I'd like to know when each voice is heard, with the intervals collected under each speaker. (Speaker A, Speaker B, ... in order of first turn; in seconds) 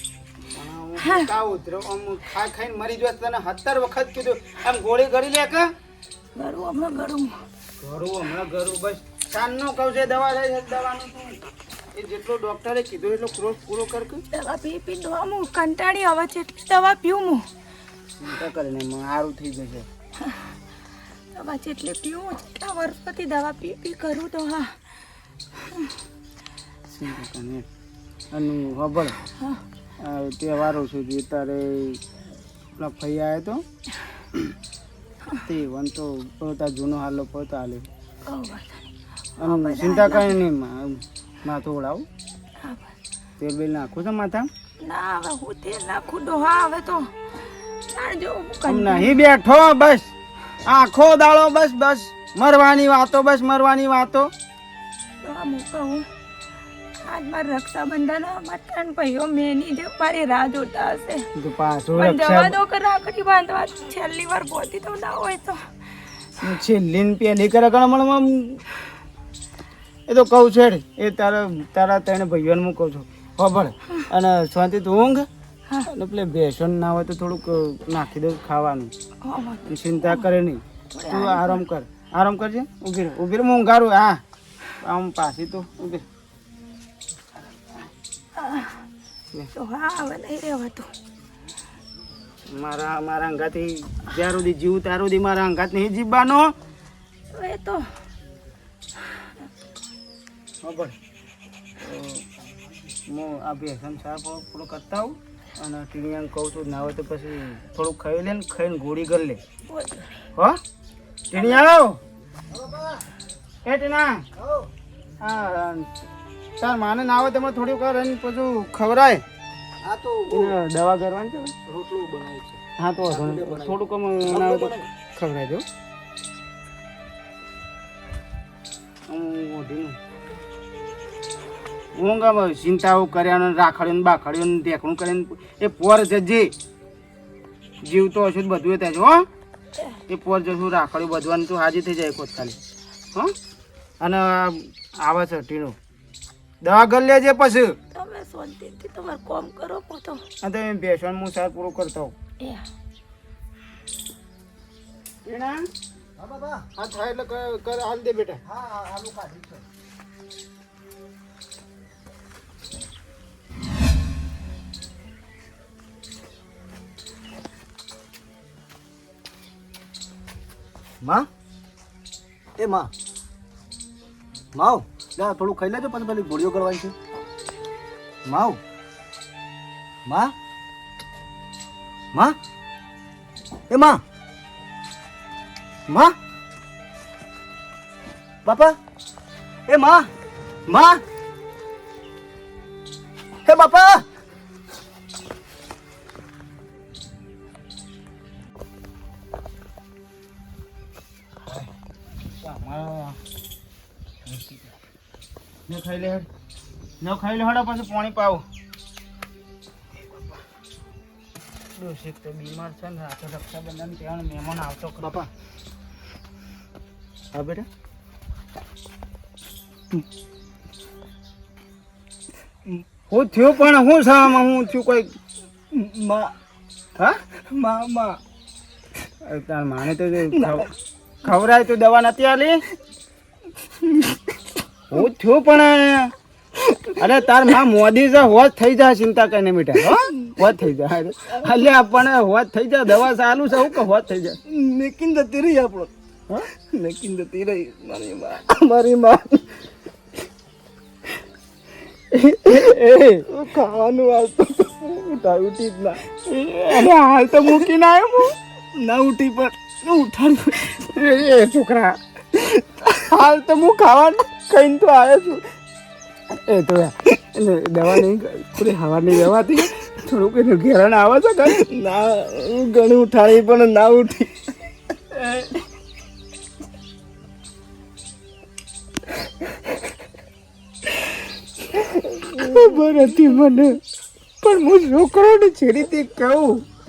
Speaker A: 0.5-5.7, 7.8-11.4, 11.9-14.2, 18.2-19.9, 26.9-27.7, 28.3-29.2, 30.0-32.0, 32.8-33.6, 35.4-37.9, 39.4-42.1, 43.4-44.5, 48.7-50.1, 50.6-54.3, 61.4-62.6, 66.4-68.6, 70.1-75.3, 75.9-78.9, 79.7-84.2, 84.8-86.0, 92.5-96.5, 100.6-101.0, 101.8-102.2, 103.1-109.4, 111.3-112.0, 113.7-114.2, 115.2-115.9, 116.6-119.2, 120.3-121.5, 122.8-125.7, 129.1-130.0, 132.0-136.5, 137.8-139.3, 140.1-142.6, 144.0-145.8, 146.6-147.8, 150.4-152.2, 155.2-155.7, 156.8-158.4, 202.4-203.2, 204.3-204.5, 205.7-206.3, 207.0-208.4, 211.8-215.3, 217.3-217.7, 223.1-225.1, 229.2-230.7, 231.2-232.6, 234.9-236.1, 237.0-244.4, 252.1-253.3, 256.2-258.3, 260.5-261.9, 263.0-265.4, 266.3-271.7, 275.2-275.5, 282.2-283.8, 284.4-286.6
Speaker B: 1.0-1.3, 6.4-7.3, 14.3-17.4, 20.2-20.5, 21.4-24.8, 25.7-25.9, 38.3-38.9, 39.4-40.4, 42.6-42.9, 44.8-47.1, 47.9-49.2, 55.2-56.0, 57.0-61.2, 61.9-65.6, 79.2-80.3, 80.9-81.6, 88.4-88.8, 89.5-90.9, 97.3-97.8, 99.4-99.7, 109.7-110.1, 111.3-111.6, 147.9-150.2
Speaker C: 112.5-113.0, 114.4-114.7, 119.8-120.6, 121.7-124.9, 156.2-156.7, 158.5-159.6, 171.0-171.3, 172.6-172.9, 174.6-176.9, 178.2-178.6, 180.1-180.3, 183.7-184.0, 185.9-186.2, 188.4-188.8, 189.7-190.1, 190.7-191.0, 193.4-194.1, 215.0-215.3, 225.7-226.3, 227.5-228.2, 230.3-230.7, 236.6-237.0, 239.8-240.4, 244.5-245.9, 246.5-249.6, 253.3-256.0, 258.8-260.5, 262.6-263.0, 271.6-274.4